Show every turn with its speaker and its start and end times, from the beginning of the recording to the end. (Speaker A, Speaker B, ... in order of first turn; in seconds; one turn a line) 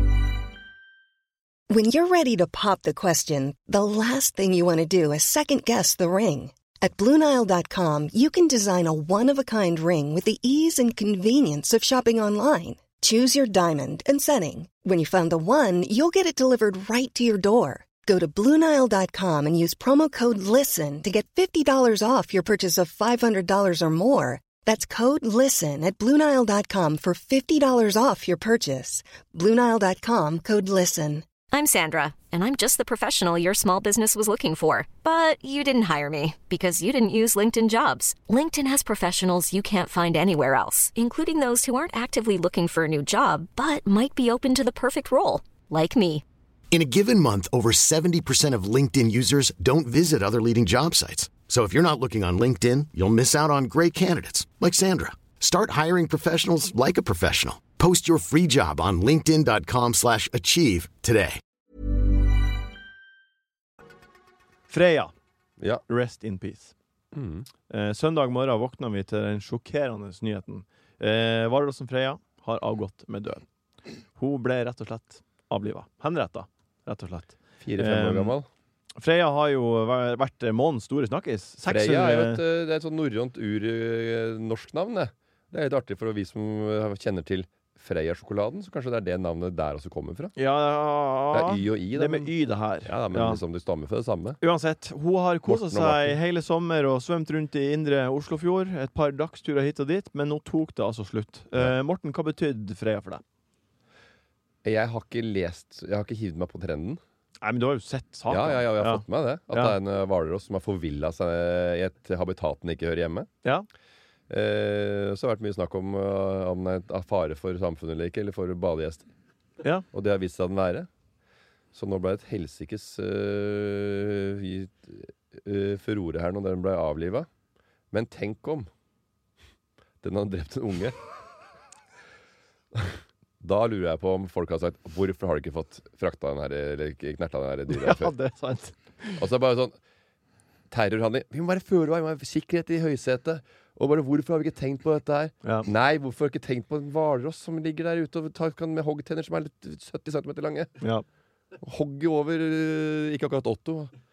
Speaker A: 1.7-31.2
Speaker B: 31.5-46.2
Speaker C: 46.7-61.4
Speaker D: 64.7-65.1
Speaker D: 65.9-66.7
Speaker E: 67.1-67.5
Speaker D: 67.7-73.4
Speaker D: 74.2-78.3
Speaker E: 77.6-78.5
Speaker D: 79.0-82.4
Speaker E: 81.7-90.3
Speaker D: 90.3-93.4
Speaker E: 91.3-92.3
Speaker E: 92.8-94.4
Speaker D: 94.4-103.2
Speaker E: 95.5-96.2
Speaker E: 104.6-107.0
Speaker D: 107.4-109.8
Speaker E: 108.3-113.3
Speaker E: 114.3-119.0
Speaker E: 119.9-120.9
Speaker E: 121.7-127.3
Speaker E: 127.9-128.7
Speaker E: 130.0-131.0
Speaker E: 132.7-138.1
Speaker D: 137.7-139.2
Speaker E: 139.2-139.8
Speaker E: 140.7-150.8
Speaker E: 151.6-153.9